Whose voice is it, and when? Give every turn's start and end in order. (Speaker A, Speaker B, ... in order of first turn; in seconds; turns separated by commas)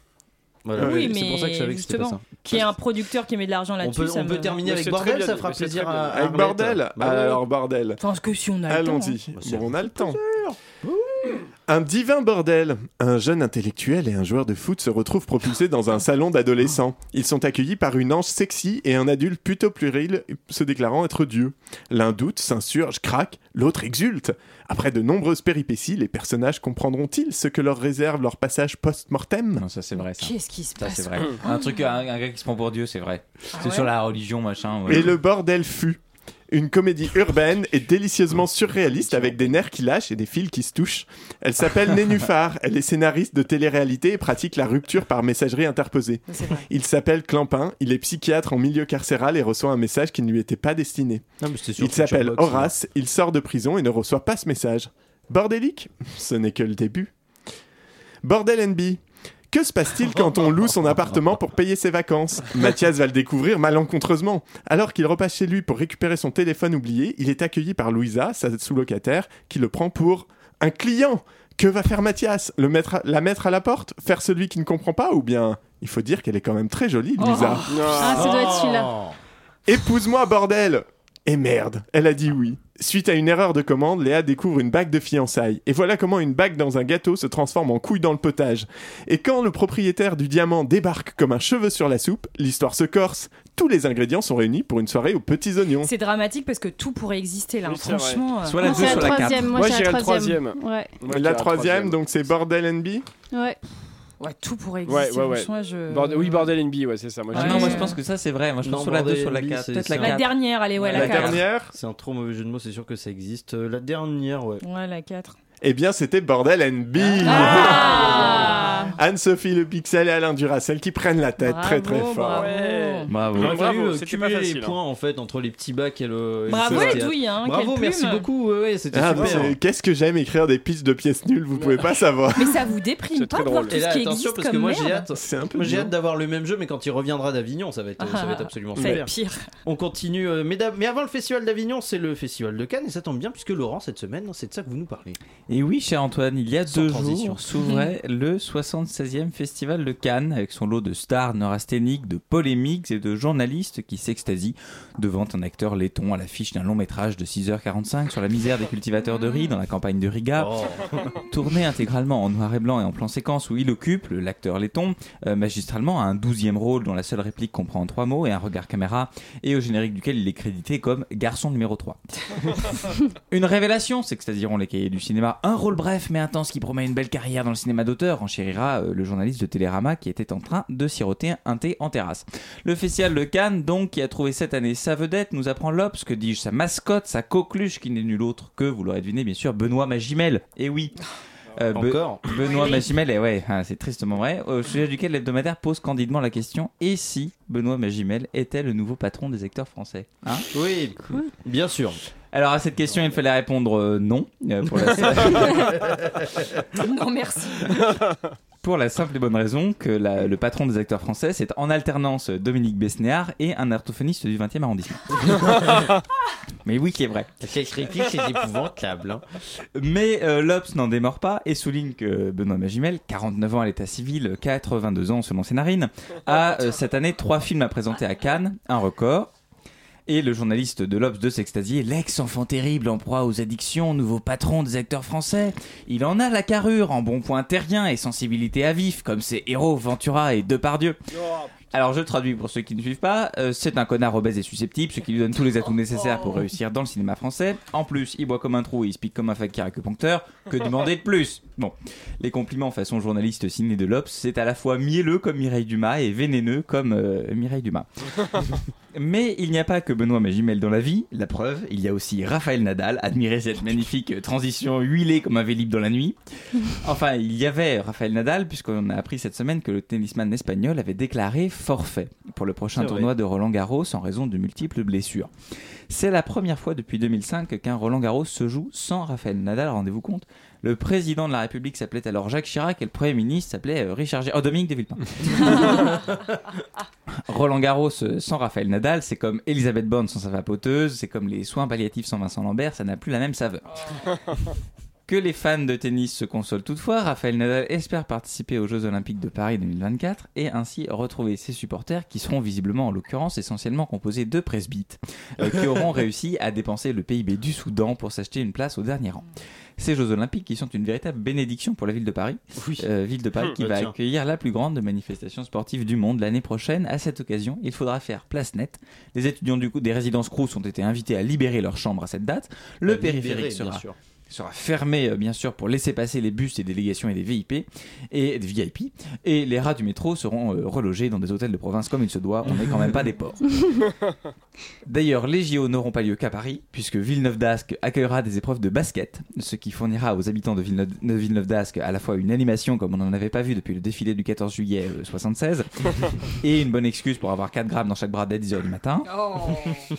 Speaker A: 0.6-2.2, Speaker B: 0.8-4.6, Speaker C: 0.8-1.1, Speaker A: 3.8-7.4, Speaker D: 4.6-6.1, Speaker C: 6.1-8.0, Speaker B: 8.0-9.2, Speaker C: 8.7-10.2, Speaker A: 9.3-11.4, Speaker C: 11.7-29.6, Speaker E: 29.6-35.1, Speaker B: 30.0-31.7, Speaker B: 33.5-33.9, Speaker C: 34.9-36.0, Speaker C: 36.5-57.1, Speaker B: 46.3-46.6, Speaker A: 51.4-52.7, Speaker C: 58.2-59.0, Speaker C: 59.5-78.2, Speaker F: 77.2-78.9, Speaker B: 77.2-77.6, Speaker D: 77.7-78.4, Speaker A: 78.0-79.1, Speaker C: 79.7-95.9, Speaker B: 95.8-98.9, Speaker D: 97.6-102.0, Speaker E: 98.4-99.6, Speaker F: 98.6-100.9, Speaker C: 101.1-103.0, Speaker F: 103.3-103.6, Speaker B: 104.2-106.5, Speaker D: 104.8-107.9, Speaker B: 107.3-108.0, Speaker E: 107.3-110.4, Speaker A: 108.6-110.2, Speaker B: 110.0-111.4, Speaker D: 110.8-111.1, Speaker C: 110.9-111.7, Speaker E: 110.9-111.4, Speaker A: 111.6-114.6, Speaker B: 114.6-115.3, Speaker C: 115.6-122.5, Speaker A: 117.0-118.8, Speaker D: 117.2-118.5, Speaker B: 117.2-118.9, Speaker B: 121.4-123.1, Speaker D: 122.3-124.8, Speaker E: 123.1-123.6, Speaker A: 123.3-129.6, Speaker B: 126.5-128.2, Speaker C: 126.5-127.0, Speaker C: 128.9-132.7, Speaker D: 129.1-129.4, Speaker D: 131.6-131.8, Speaker B: 132.3-135.0, Speaker D: 133.1-133.8, Speaker A: 133.7-139.1, Speaker C: 135.1-135.9, Speaker B: 138.0-139.4, Speaker A: 139.6-145.2, Speaker E: 145.5-160.5, Speaker A: 146.7-147.4, Speaker B: 147.6-147.9, Speaker A: 160.4-161.2, Speaker E: 161.2-172.7, Speaker E: 173.3-190.9, Speaker E: 191.6-200.5, Speaker A: 191.7-192.6, Speaker B: 192.5-192.8, Speaker A: 200.5-202.0, Speaker E: 202.3-205.8, Speaker B: 206.7-207.8, Speaker E: 208.6-215.9, Speaker E: 216.6-217.3, Speaker A: 217.4-219.2, Speaker E: 219.7-229.3, Speaker E: 230.1-241.0, Speaker E: 241.7-275.3, Speaker A: 272.8-273.1, Speaker E: 275.9-286.2, Speaker E: 287.3-293.6, Speaker E: 295.1-309.3, Speaker A: 305.4-305.8, Speaker E: 309.8-333.9, Speaker A: 312.6-312.9, Speaker A: 313.6-313.9, Speaker A: 322.8-323.9, Speaker E: 334.8-349.3